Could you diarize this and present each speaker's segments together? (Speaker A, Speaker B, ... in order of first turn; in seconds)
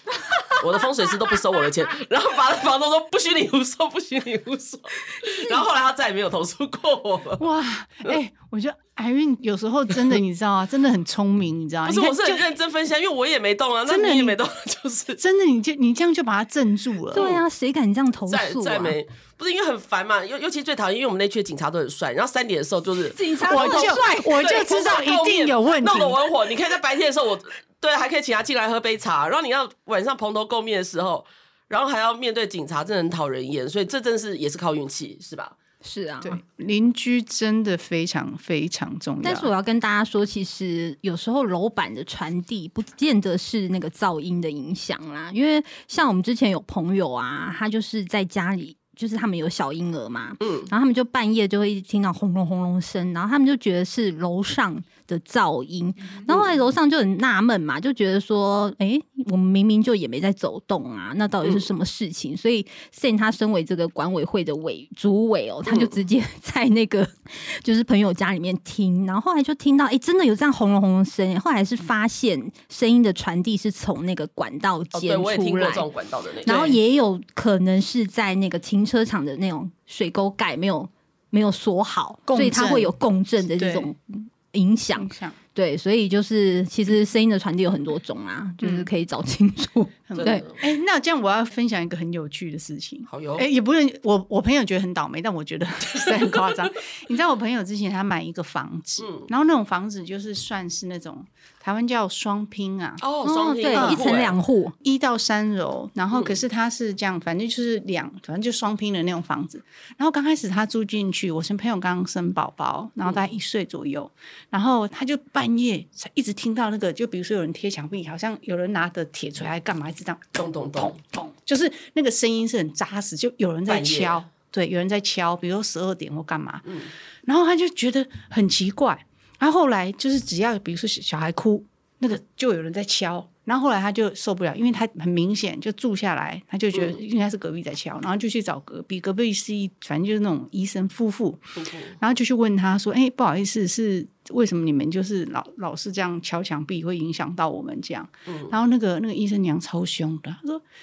Speaker A: 0.5-7.4, 11.8-15.2, 17.1-17.4, 18.3-35.5, 50.4-50.7, 56.3-56.5, 61.4-61.7, 65.7-65.9, 74.9-76.8, 90.1-90.6, 93.1-93.5, 95.9-96.5, 99.0-99.3, 103.0-104.3, 106.1-106.4, 120.3-121.0, 123.7-124.2, 141.6-142.0, 148.3-148.5
Speaker B: 7.4-12.4, 13.9-14.4, 15.2-17.3, 23.5-26.2, 36.2-39.5, 82.3-82.9, 83.5-83.9, 85.0-85.3, 88.6-88.9, 90.1-103.0, 103.7-104.0, 104.8-141.4, 142.0-150.6
Speaker C: 17.1-19.0, 23.1-24.7, 35.8-36.4, 39.2-75.9, 76.4-90.5, 103.2-104.8